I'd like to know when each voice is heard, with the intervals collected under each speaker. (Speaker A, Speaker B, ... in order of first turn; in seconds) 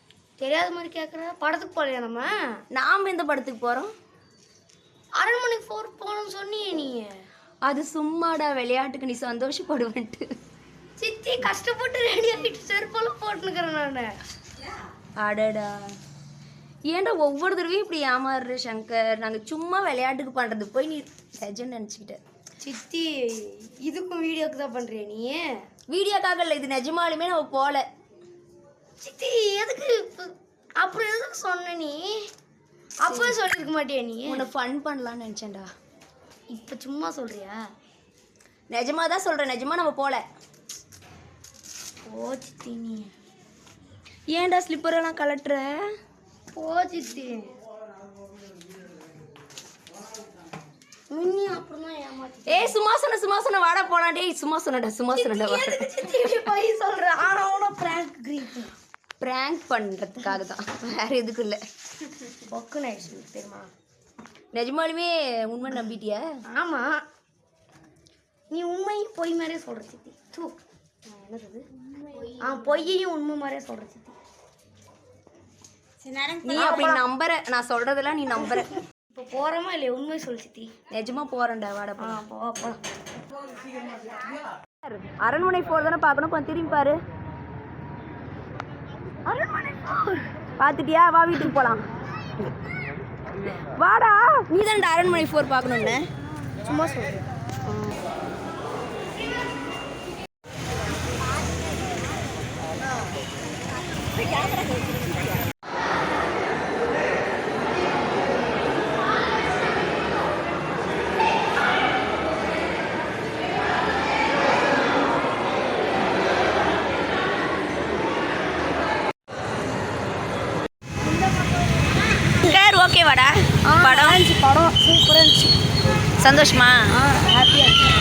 Speaker A: 0.4-2.3, 5.2-7.1, 11.0-14.1, 22.6-25.5, 29.0-32.1, 33.0-34.5, 36.5-37.6, 42.1-43.1, 46.5-47.5, 51.1-52.8, 55.1-58.7, 62.3-63.7, 66.5-67.0, 68.5-71.7, 72.2-74.2, 76.3-77.0, 79.1-80.7, 82.0-82.8, 89.3-90.3, 96.6-97.2, 123.7-125.5, 126.9-127.8
Speaker B: 2.7-3.9, 7.7-10.2, 15.2-15.9, 16.9-22.2, 25.9-27.9, 33.1-33.3, 34.3-35.7, 38.7-40.2, 44.3-45.8, 52.5-55.8, 59.2-61.6, 64.5-66.2, 76.4-78.8, 80.9-82.2, 84.8-87.0, 90.6-91.8, 93.6-96.0, 122.4-124.2, 126.2-126.9